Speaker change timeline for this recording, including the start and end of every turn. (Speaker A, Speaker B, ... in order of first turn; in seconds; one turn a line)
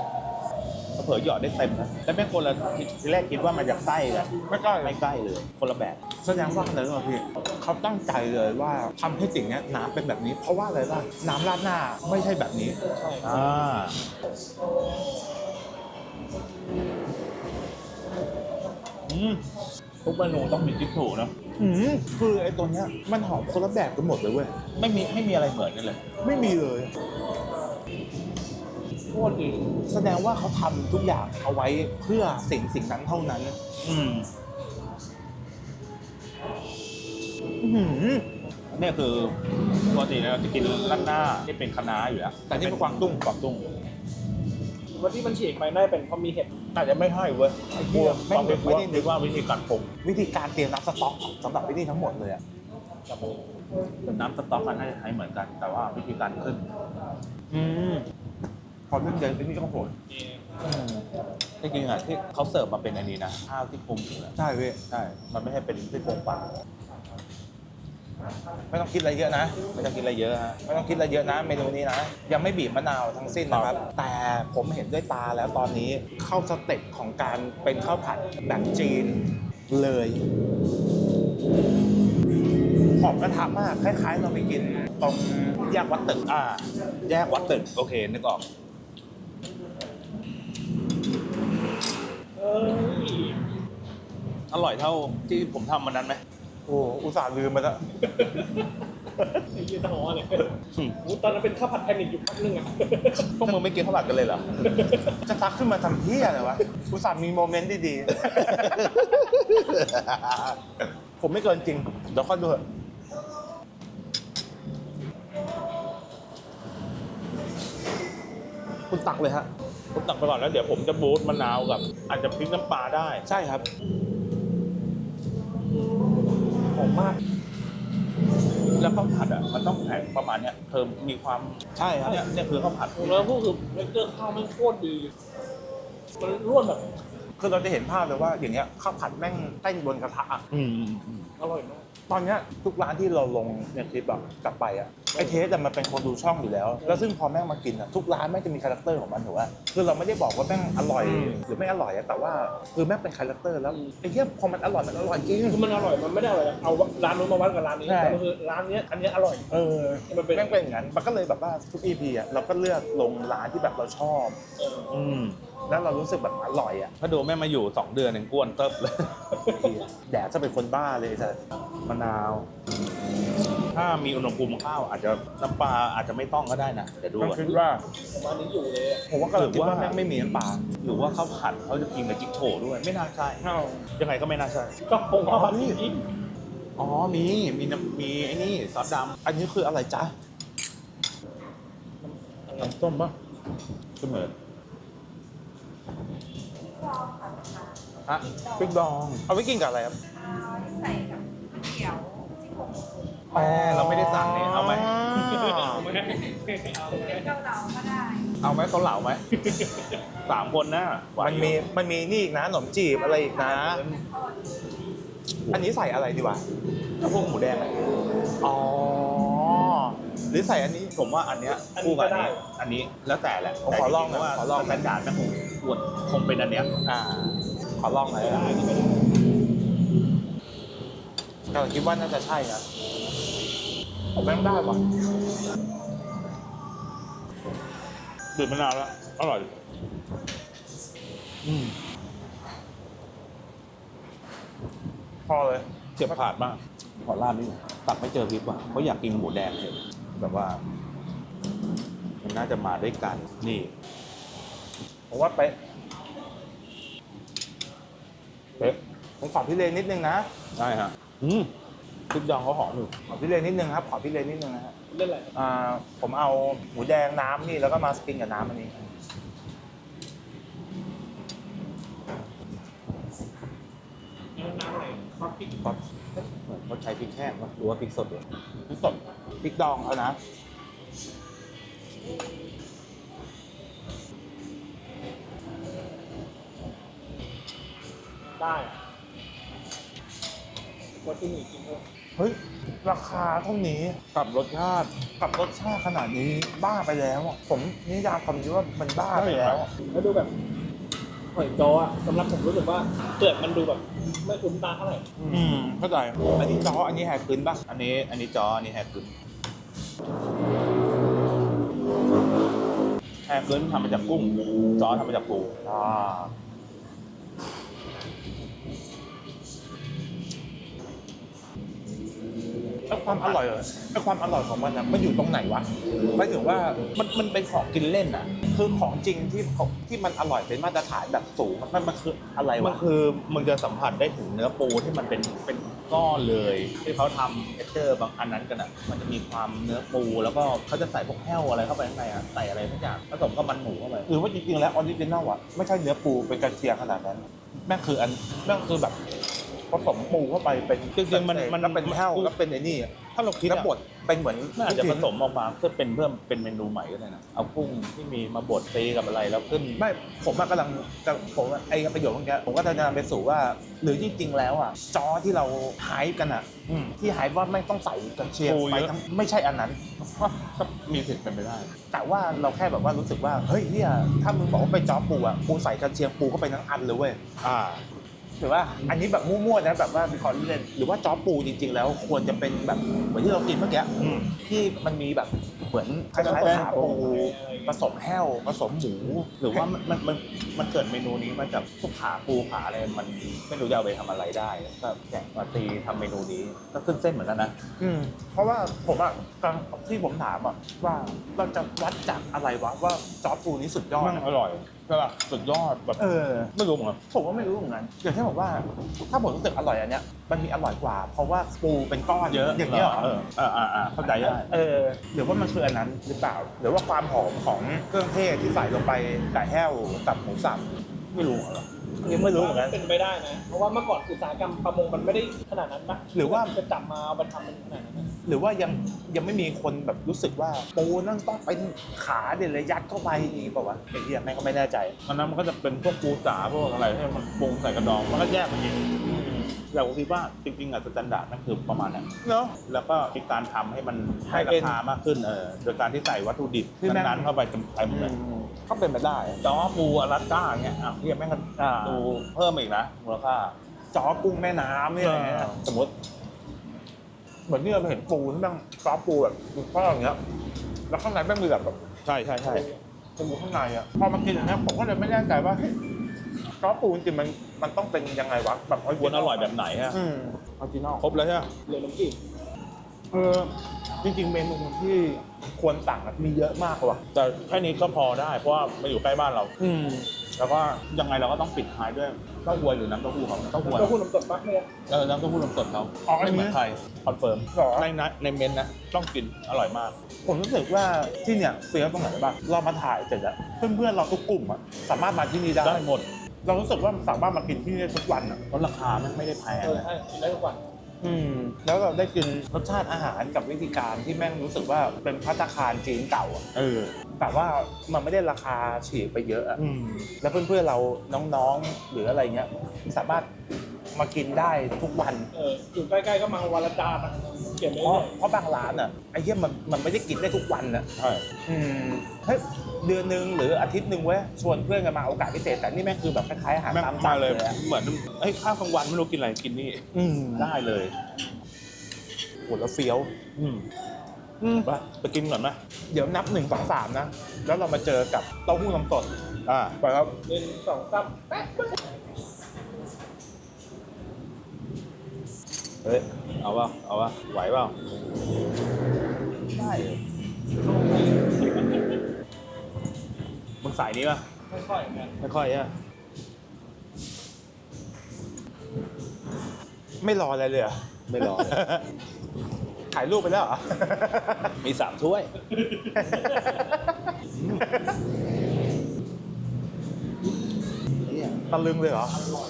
Speaker A: 1.0-6.0
Speaker B: 4.5-5.0
Speaker B: 6.2-12.1
Speaker A: 12.1-14.0
Speaker C: 13.0-13.4
Speaker A: 19.1-19.4
Speaker A: 20.1-21.3
Speaker B: 21.6-24.6
Speaker A: 24.7-26.0
Speaker B: 26.2-26.9
Speaker C: 29.1-29.8
Speaker B: 29.9-33.6
Speaker A: 33.8-34.3
Speaker B: 37.6-38.3
Speaker A: 38.7-39.4
Speaker A: 39.9-43.7
Speaker B: 42.5-43.2
Speaker C: 45.0-46.5
Speaker A: 46.7-49.9
Speaker B: 47.8-49.1
Speaker B: 50.0-52.4
Speaker A: 54.0-56.7
Speaker B: 57.5-58.0
Speaker B: 58.9-59.9
Speaker C: 60.1-60.5
Speaker B: 60.6-61.1
Speaker A: 61.6-66.5
Speaker B: 64.4-64.8
Speaker B: 68.7-69.6
Speaker A: 69.7-70.6
Speaker B: 70.7-80.2
Speaker A: 73.5-73.8
Speaker B: 83.0-86.2
Speaker A: 86.2-88.5
Speaker C: 92.4-93.4
Speaker A: 94.5-96.2
Speaker B: 96.7-97.8
Speaker C: 98.0-98.8
Speaker C: 99.4-103.6
Speaker A: 103.4-104.6
Speaker C: 104.6-105.2
Speaker B: 105.3-108.8
Speaker A: 108.1-110.6
Speaker B: 111.2-112.6
Speaker A: 118.9-123.3
Speaker B: 123.3-123.7
Speaker C: 126.7-127.2
Speaker A: 128.8-133.2
Speaker B: 131.8-132.1
Speaker C: 133.0-135.1
Speaker C: 136.2-136.9
Speaker B: 137.4-140.4
Speaker A: 140.5-141.3
Speaker C: 141.4-141.9
Speaker B: 142.1-155.6
Speaker C: 145.1-145.4
Speaker C: 146.8-147.1
Speaker A: 151.1-151.4
Speaker C: 155.5-159.5
Speaker B: 157.9-158.2
Speaker B: 159.5-164.4
Speaker C: 160.1-160.6
Speaker C: 164.6-164.9
Speaker A: 164.9-165.4
Speaker B: 165.7-166.9
Speaker A: 167.0-169.9
Speaker C: 169.3-169.9
Speaker B: 170.1-171.4
Speaker A: 171.9-172.5
Speaker A: 173.7-177.6
Speaker B: 177.2-177.8
Speaker C: 178.1-179.0
Speaker B: 179.1-180.7
Speaker A: 179.3-180.0
Speaker A: 180.8-183.4
Speaker B: 183.4-183.9
Speaker A: 184.0-184.7
Speaker C: 184.9-186.0
Speaker A: 185.3-185.7
Speaker B: 185.3-185.7
Speaker A: 186.8-189.1
Speaker B: 189.2-190.1
Speaker B: 192.6-193.1
Speaker A: 194.0-194.3
Speaker D: 196.6-198.8
Speaker A: 198.1-199.2
Speaker B: 199.3-200.0
Speaker D: 200.1-203.3
Speaker A: 203.3-205.0
Speaker B: 203.3-205.9
Speaker C: 205.1-207.3
Speaker D: 206.8-208.3
Speaker A: 208.4-209.2
Speaker C: 209.4-210.0
Speaker A: 210.3-211.6
Speaker B: 211.2-213.8
Speaker D: 212.9-214.7
Speaker A: 213.4-214.0
Speaker B: 215.5-216.4
Speaker A: 217.0-217.8
Speaker B: 218.4-220.9
Speaker A: 221.0-226.7
Speaker C: 221.6-222.4
Speaker B: 223.7-224.8
Speaker B: 226.8-228.5
Speaker C: 228.1-229.1
Speaker B: 231.5-232.7
Speaker B: 234.2-234.8
Speaker A: 238.3-239.5
Speaker A: 241.4-241.8
Speaker B: 245.3-246.2
Speaker A: 246.0-250.6
Speaker A: 252.2-253.7
Speaker B: 255.1-255.6
Speaker B: 258.6-260.3
Speaker A: 260.6-261.5
Speaker A: 262.1-262.9
Speaker B: 263.1-264.8
Speaker C: 264.9-265.3
Speaker B: 265.4-268.8
Speaker C: 274.4-275.6
Speaker A: 276.1-278.2
Speaker B: 278.7-280.2
Speaker C: 288.4-288.8
Speaker C: 291.0-291.8
Speaker B: 292.2-294.0
Speaker A: 294.1-294.9
Speaker B: 295.2-299.7
Speaker A: 299.1-299.7
Speaker C: 299.9-300.3
Speaker C: 301.3-305.1
Speaker A: 305.2-305.5
Speaker B: 305.3-307.6
Speaker A: 307.7-309.1
Speaker A: 313.3-315.5
Speaker B: 315.6-316.3
Speaker B: 322.9-326.8
Speaker A: 322.9-323.4
Speaker A: 326.9-328.3
Speaker B: 328.5-332.8
Speaker A: 332.6-344.1
Speaker B: 344.1-349.0
Speaker B: 349.7-355.1
Speaker A: 350.9-352.3
Speaker A: 353.1-353.7
Speaker A: 354.6-359.8
Speaker B: 359.8-370.3
Speaker A: 368.4-368.9
Speaker A: 370.4-371.7
Speaker B: 371.9-377.2
Speaker A: 377.4-377.8
Speaker B: 378.4-389.6
Speaker A: 384.0-384.3
Speaker A: 386.1-387.0
Speaker C: 386.4-387.8
Speaker A: 389.4-397.6
Speaker B: 397.8-404.2
Speaker A: 404.0-406.0
Speaker B: 406.0-406.5
Speaker A: 406.6-407.0
Speaker B: 407.1-413.2
Speaker A: 412.3-414.5
Speaker B: 414.0-420.7
Speaker A: 421.1-421.6
Speaker B: 422.0-422.8
Speaker C: 422.2-428.1
Speaker B: 426.1-426.5
Speaker B: 428.3-435.0
Speaker A: 435.1-438.9
Speaker B: 439.0-439.6
Speaker A: 439.7-442.1
Speaker B: 442.2-442.6
Speaker A: 442.6-448.1
Speaker B: 444.3-444.8
Speaker B: 446.8-447.3
Speaker B: 447.9-449.4
Speaker A: 449.4-453.6
Speaker B: 451.7-452.3
Speaker B: 453.9-455.9
Speaker A: 455.0-455.5
Speaker B: 457.5-460.2
Speaker B: 460.9-461.8
Speaker A: 462.1-462.7
Speaker C: 462.5-462.8
Speaker B: 463.2-465.8
Speaker B: 466.6-471.1
Speaker A: 469.0-470.0
Speaker A: 471.0-471.5
Speaker C: 471.7-472.2
Speaker B: 473.1-477.0
Speaker A: 477.1-484.0
Speaker C: 483.6-484.7
Speaker A: 484.9-490.0
Speaker B: 486.1-486.6
Speaker B: 487.5-487.9
Speaker B: 490.2-495.9
Speaker A: 495.6-496.1
Speaker B: 496.4-498.4
Speaker A: 498.5-499.9
Speaker C: 499.6-500.6
Speaker B: 501.0-506.4
Speaker A: 506.5-507.0
Speaker B: 507.2-509.6
Speaker A: 509.6-510.1
Speaker B: 510.2-513.3
Speaker B: 513.9-515.3
Speaker C: 515.3-518.1
Speaker B: 517.8-520.9
Speaker A: 521.0-521.2
Speaker B: 521.5-527.6
Speaker A: 526.7-529.8
Speaker B: 529.9-530.5
Speaker A: 530.4-531.0
Speaker B: 532.5-533.1
Speaker A: 533.4-533.7
Speaker A: 534.4-535.6
Speaker B: 535.9-539.1
Speaker A: 539.5-539.8
Speaker B: 539.8-540.1
Speaker C: 540.3-541.4
Speaker A: 545.8-547.8
Speaker A: 549.5-550.0
Speaker C: 550.6-552.0
Speaker A: 553.6-554.3
Speaker C: 554.5-555.1
Speaker A: 555.2-555.7
Speaker B: 560.0-561.8
Speaker A: 561.1-561.6
Speaker B: 562.9-564.6
Speaker A: 564.6-565.3
Speaker C: 565.4-566.7
Speaker B: 566.0-567.1
Speaker A: 567.3-567.7
Speaker B: 567.6-567.9
Speaker A: 571.0-571.4
Speaker B: 571.5-572.2